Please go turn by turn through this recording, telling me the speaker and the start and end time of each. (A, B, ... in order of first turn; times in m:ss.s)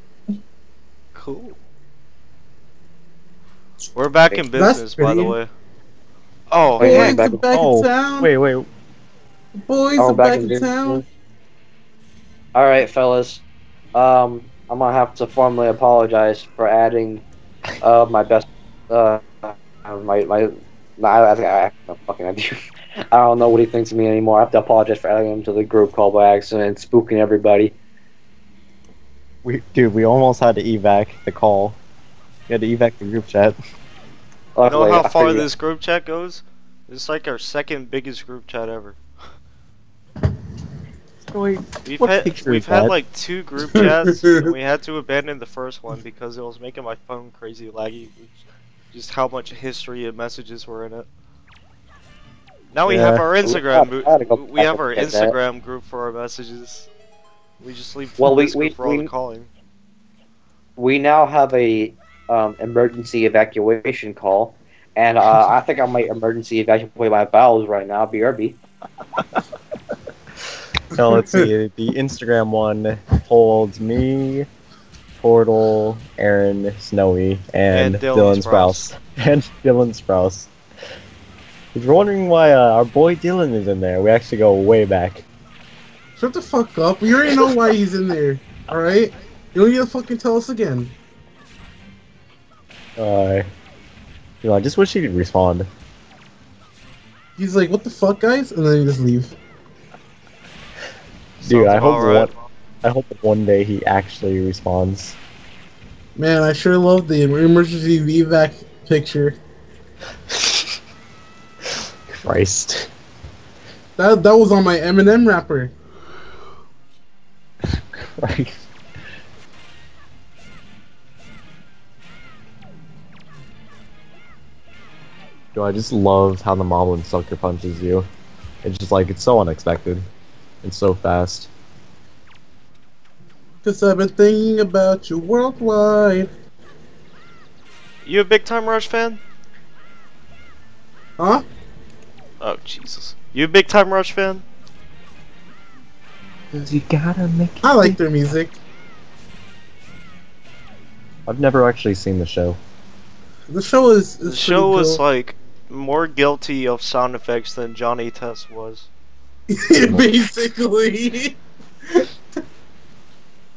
0:01.2-0:01.6 A
0:04.0-0:05.5 A
0:04.5-0:05.4 B
0:06.5-0:07.2 A
0:06.8-0:07.5 C
0:06.8-0:08.3 B
0:07.5-0:08.7 D
0:09.6-0:11.0 B
0:10.0-0:11.0 C
0:12.5-0:13.4 C
0:14.0-0:17.2 C
0:17.8-0:22.6 C
0:23.1-0:27.7 C
0:29.4-0:31.8 D
0:32.5-0:33.6 D
0:34.6-0:35.5 C
0:34.6-0:39.0 A
0:41.2-0:43.0 D
0:41.8-0:48.4 A
0:43.7-0:44.5 B
0:48.9-0:51.1 A
0:52.7-0:56.9 A
0:52.8-0:53.2 D
0:53.4-0:55.3 C
0:57.6-0:59.5 A
0:58.2-0:59.1 C
1:00.8-1:08.6 C
1:10.9-1:14.5 D
1:11.1-1:11.4 B
1:15.2-1:20.5 D
1:17.7-1:18.8 A
1:21.7-1:25.2 D
1:26.2-1:30.9 B
1:33.0-1:33.5 D
1:34.4-1:35.7 D
1:37.4-1:39.3 B
1:41.4-1:42.3 A
1:41.4-1:45.2 D
1:46.2-1:49.4 B
1:50.3-1:50.7 D
1:52.1-1:52.9 D
1:54.0-1:55.7 B
1:58.2-1:58.6 D
2:05.5-2:08.1 D
2:08.6-2:10.1 D
2:10.6-2:11.5 D
2:13.6-2:16.3 B
2:18.0-2:19.2 A
2:21.2-2:21.4 B
2:22.4-2:24.4 A
2:26.5-2:28.0 D
2:27.6-2:28.6 B
2:31.2-2:32.6 D
2:33.5-2:35.0 B
2:34.2-2:38.9 A
2:39.5-2:42.1 B
2:39.8-2:40.1 D